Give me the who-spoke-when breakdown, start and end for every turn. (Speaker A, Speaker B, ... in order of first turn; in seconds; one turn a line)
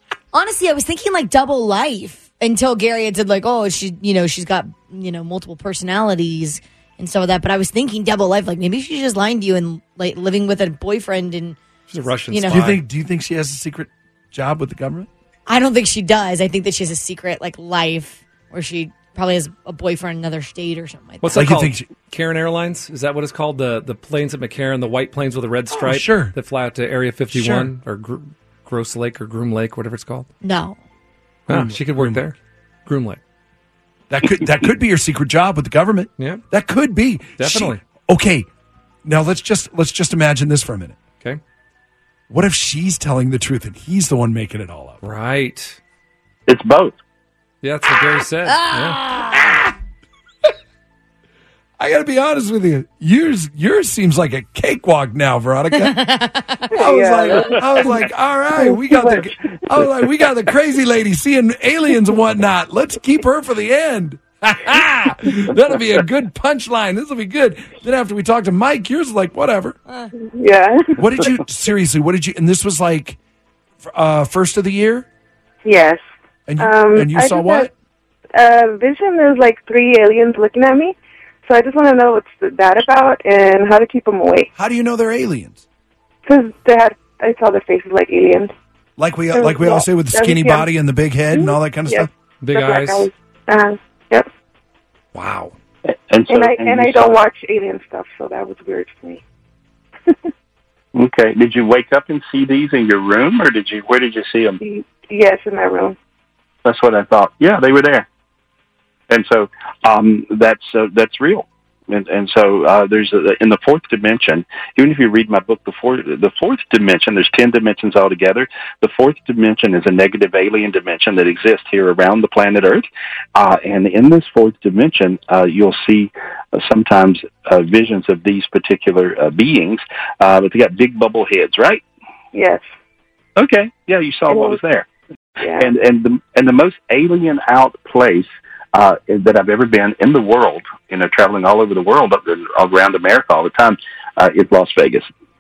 Speaker A: 0.3-11.6
Speaker B: 11.9-12.8
Speaker A: 12.2-12.7
Speaker C: 12.5-15.1
Speaker A: 15.5-21.5
Speaker B: 21.2-30.3
Speaker C: 21.3-21.9
Speaker C: 25.8-26.4
Speaker C: 27.3-27.7
Speaker A: 30.4-30.8
Speaker B: 31.5-33.2
Speaker C: 31.5-32.3
Speaker C: 34.1-38.5
Speaker B: 36.2-36.4
Speaker B: 37.4-37.8
Speaker C: 39.0-41.0
Speaker C: 42.3-45.0
Speaker B: 45.0-45.8
Speaker D: 46.5-47.0
Speaker B: 47.6-49.0
Speaker A: 47.9-49.7
Speaker C: 51.8-56.0
Speaker A: 55.8-56.8
Speaker C: 56.7-69.8
Speaker E: 56.8-58.1
Speaker E: 58.6-59.9
Speaker E: 70.2-71.0
Speaker C: 71.0-73.2
Speaker C: 73.8-75.1
Speaker E: 75.6-76.0
Speaker C: 76.5-77.7
Speaker E: 76.6-77.7
Speaker E: 78.3-84.5
Speaker C: 84.5-85.6
Speaker E: 86.3-88.5
Speaker C: 89.0-92.1
Speaker E: 89.3-90.7
Speaker E: 91.3-94.3
Speaker B: 92.4-93.1
Speaker B: 95.1-95.5
Speaker D: 96.1-97.2
Speaker E: 96.3-99.2
Speaker D: 100.9-104.6
Speaker E: 104.6-106.0
Speaker D: 106.7-108.1
Speaker D: 109.1-131.8
Speaker E: 132.3-132.7
Speaker D: 133.4-134.9
Speaker E: 134.3-134.6
Speaker E: 135.4-135.7
Speaker D: 135.6-145.1